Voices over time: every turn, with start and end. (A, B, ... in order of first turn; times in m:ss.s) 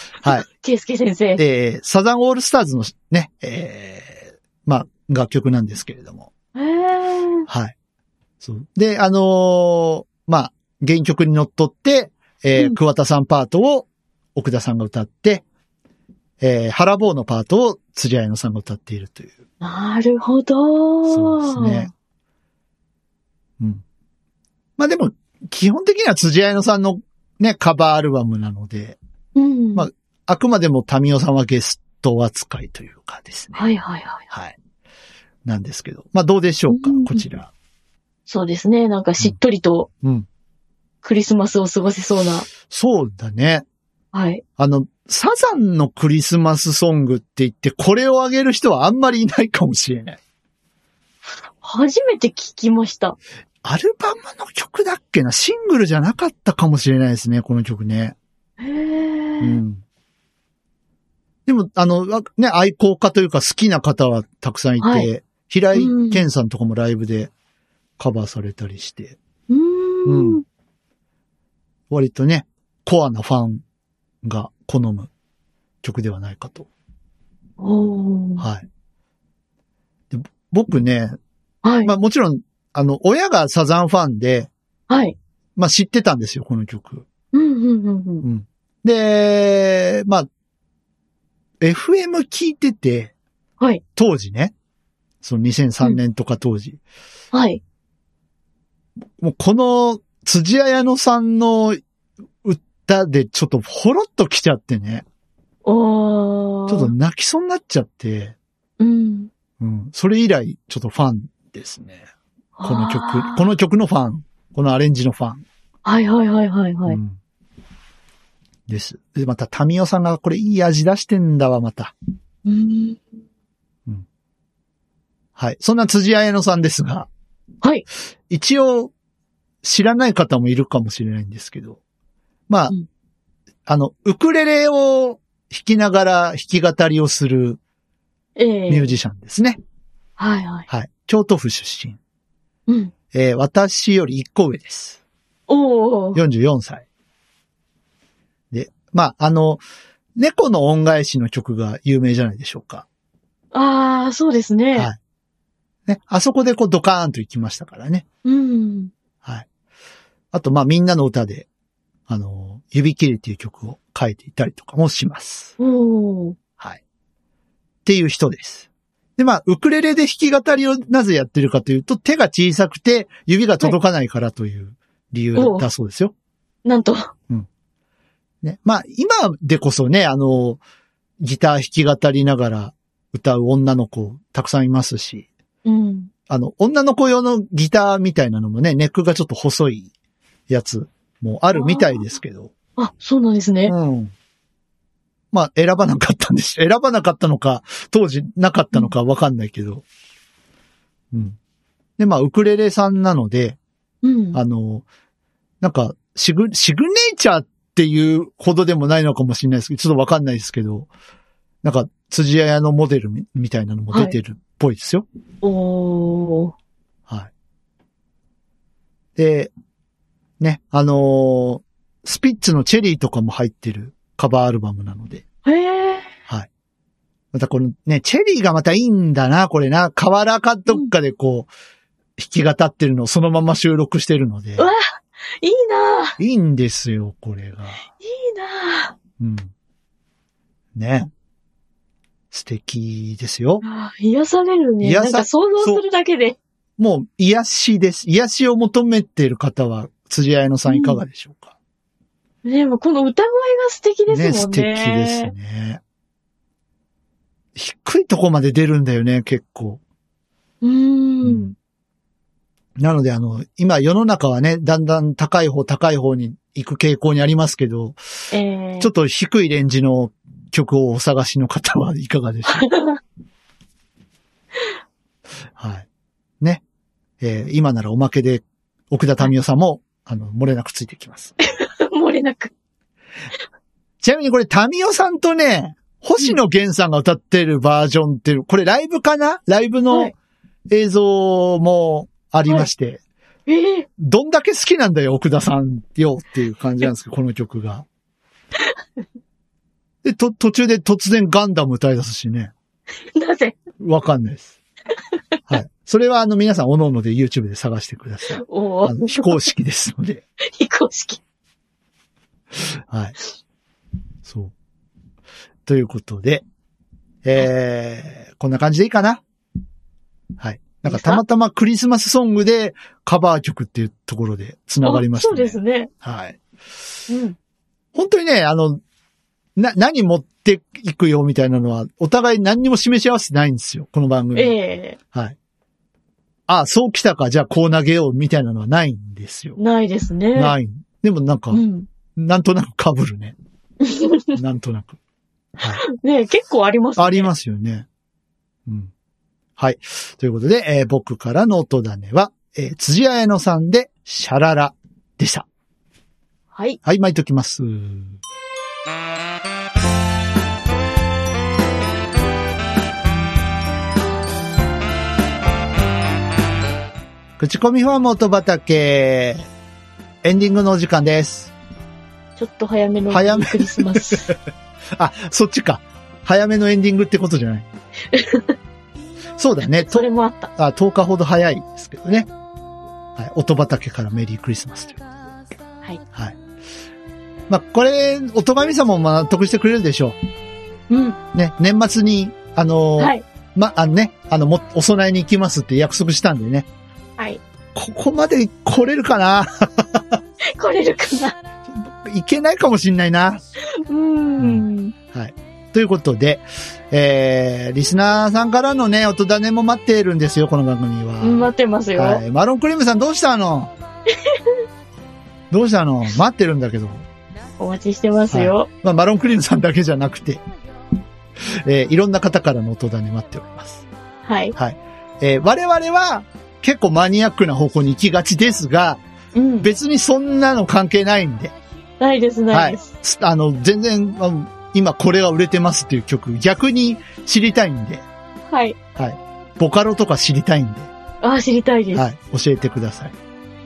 0:00.2-0:00.4 A
0:00.2-0:01.4 B
0:01.4-0:06.3 A
0:06.6-0:07.5 B
0:07.5-0:07.7 A
0:08.4-0:15.4 A
0:16.4-0:19.4 A
0:19.6-0:21.9 B
0:21.1-0:21.9 A
0:24.8-0:29.0 A
0:29.4-0:29.9 B
0:29.8-0:33.6 A
0:33.6-0:34.3 B
0:34.3-0:34.6 A
0:35.5-0:37.5 A
0:36.7-0:37.2 B
0:38.3-0:39.9 B
0:41.0-0:42.5 B
0:42.7-0:43.6 A
0:44.1-0:44.4 B
0:44.6-0:50.2 A
0:51.6-0:53.2 B
0:53.6-0:58.2 A
0:58.6-0:59.6 B
0:59.4-0:59.8 A
1:01.5-1:07.3 A
1:04.8-1:05.1 B
1:05.8-1:06.2 B
1:08.0-1:09.2 A
1:09.5-1:10.4 B
1:10.1-1:10.4 A
1:11.9-1:13.6 A
1:14.2-1:15.1 A
1:15.8-1:16.7 A
1:17.6-1:18.4 B
1:18.4-1:18.7 A
1:20.1-1:21.2 A
1:21.6-1:21.9 B
1:21.8-1:24.5 A
1:24.9-1:25.2 B
1:25.6-1:27.1 A
1:27.3-1:28.2 B
1:28.2-1:30.3 A
1:31.6-1:33.1 A
1:34.0-1:34.5 A
1:35.2-1:36.8 A
1:37.3-1:37.6 B
1:39.2-1:41.8 A
1:42.4-1:45.0 A
1:45.6-1:46.9 B
1:46.7-1:48.4 A
1:48.8-1:49.3 B
1:49.6-1:52.0 A
1:52.6-1:53.5 B
1:52.6-1:55.4 A
1:55.8-1:57.0 B
1:56.9-1:57.2 A
1:58.7-2:01.9 A
2:02.4-2:03.0 B
2:05.4-2:07.1 A
2:08.3-2:08.9 A
2:09.6-2:11.8 A
2:12.5-2:12.8 A
2:13.7-2:17.6 A
2:18.4-2:19.0 B
2:18.7-2:19.6 A
2:20.2-2:20.7 B
2:20.7-2:22.0 A
2:22.7-2:22.9 B
2:23.1-2:25.0 A
2:25.5-2:26.2 B
2:26.2-2:26.8 A
2:28.5-2:29.6 A
2:30.2-2:32.9 A
2:33.5-2:34.9 B
2:35.9-2:38.0 A
2:38.2-2:38.9 B
2:40.3-2:41.5 A
2:42.1-2:45.5 A
2:45.6-2:46.4 B
2:47.9-2:56.1 A
2:55.4-2:55.7 B
2:56.6-2:57.1 B
2:58.4-3:00.6 A
3:01.2-3:05.3 A
3:05.6-3:06.1 B
3:06.3-3:09.9 A
3:10.5-3:12.5 A
3:11.5-3:12.1 B
3:12.8-3:13.7 B
3:13.7-3:14.1 A
3:15.3-3:19.8 A
3:21.1-3:21.4 A
3:22.0-3:23.6 A
3:24.0-3:24.4 B
3:24.3-3:24.8 A
3:25.6-3:30.9 A
3:31.6-3:35.0 A
3:35.4-3:36.5 B
3:39.2-3:39.5 A
3:40.4-3:45.2 A
3:45.4-3:46.1 B
3:47.3-3:51.5 A
3:52.2-3:54.7 A
3:54.6-3:56.2 B
3:56.2-3:57.8 A
3:58.0-3:59.0 B
3:59.2-3:59.5 A
4:00.8-4:01.1 A
4:02.3-4:03.6 A
4:03.6-4:06.4 B
4:04.8-4:05.8 A
4:06.8-4:11.5 A
4:10.7-4:11.0 B
4:12.4-4:15.3 B
4:14.1-4:15.8 A
4:17.6-4:19.8 A
4:20.6-4:21.5 B
4:21.2-4:21.5 A
4:22.8-4:28.0 A
4:28.3-4:28.9 B
4:28.8-4:32.7 A
4:32.5-4:33.0 B
4:35.6-4:35.9 A
4:37.2-4:41.4 A
4:41.5-4:42.5 B
4:44.0-4:50.1 A
4:50.7-4:53.0 A
4:53.5-4:53.9 B
4:54.0-4:57.9 A
5:00.0-5:02.5 A
5:03.1-5:03.6 B
5:03.8-5:04.6 A
5:05.5-5:10.2 A
5:08.4-5:09.4 B
5:10.4-5:11.2 B
5:12.6-5:13.2 A
5:14.3-5:14.5 A
5:15.7-5:16.4 A
5:17.2-5:19.2 A
5:20.4-5:26.4 A
5:20.9-5:21.2 B
5:24.8-5:25.9 B
5:27.1-5:27.4 B
5:27.9-5:28.8 A
5:29.6-5:34.5 A
5:34.4-5:35.0 B
5:36.5-5:39.6 A
5:39.6-5:40.6 B
5:40.4-5:41.6 A
5:41.5-5:41.9 B
5:42.2-5:43.4 A
5:43.8-5:44.3 B
5:44.3-5:45.0 A
5:45.6-5:45.8 A
5:45.8-5:47.3 B
5:47.0-5:47.9 A
5:49.6-5:55.5 A
5:56.5-5:56.8 B
5:56.8-5:58.2 A
6:07.4-6:09.5 A
6:10.2-6:11.5 A
6:12.4-6:14.3 B
6:13.1-6:14.4 A
6:15.0-6:17.7 A
6:18.1-6:18.6 B
6:19.4-6:22.3 A
6:19.7-6:20.5 B
6:23.2-6:25.1 A
6:27.5-6:30.2 A
6:30.9-6:31.2 B
6:31.3-6:36.7 A
6:33.0-6:33.2 B
6:37.8-6:40.2 A
6:40.4-6:41.4 B
6:41.8-6:43.4 A
6:43.7-6:44.9 B
6:44.4-6:53.7 A
6:51.2-6:52.2 B
6:54.1-6:54.6 B
6:55.5-6:57.1 A
6:57.6-6:58.7 B
6:58.3-7:00.4 A
7:01.5-7:03.8 A
7:04.3-7:04.6 B
7:04.6-7:09.0 A
7:09.4-7:09.7 B
7:09.6-7:11.5 A
7:12.0-7:12.9 B
7:12.5-7:18.0 A
7:18.5-7:18.8 B
7:19.0-7:20.9 A
7:21.2-7:22.1 B
7:21.9-7:23.2 A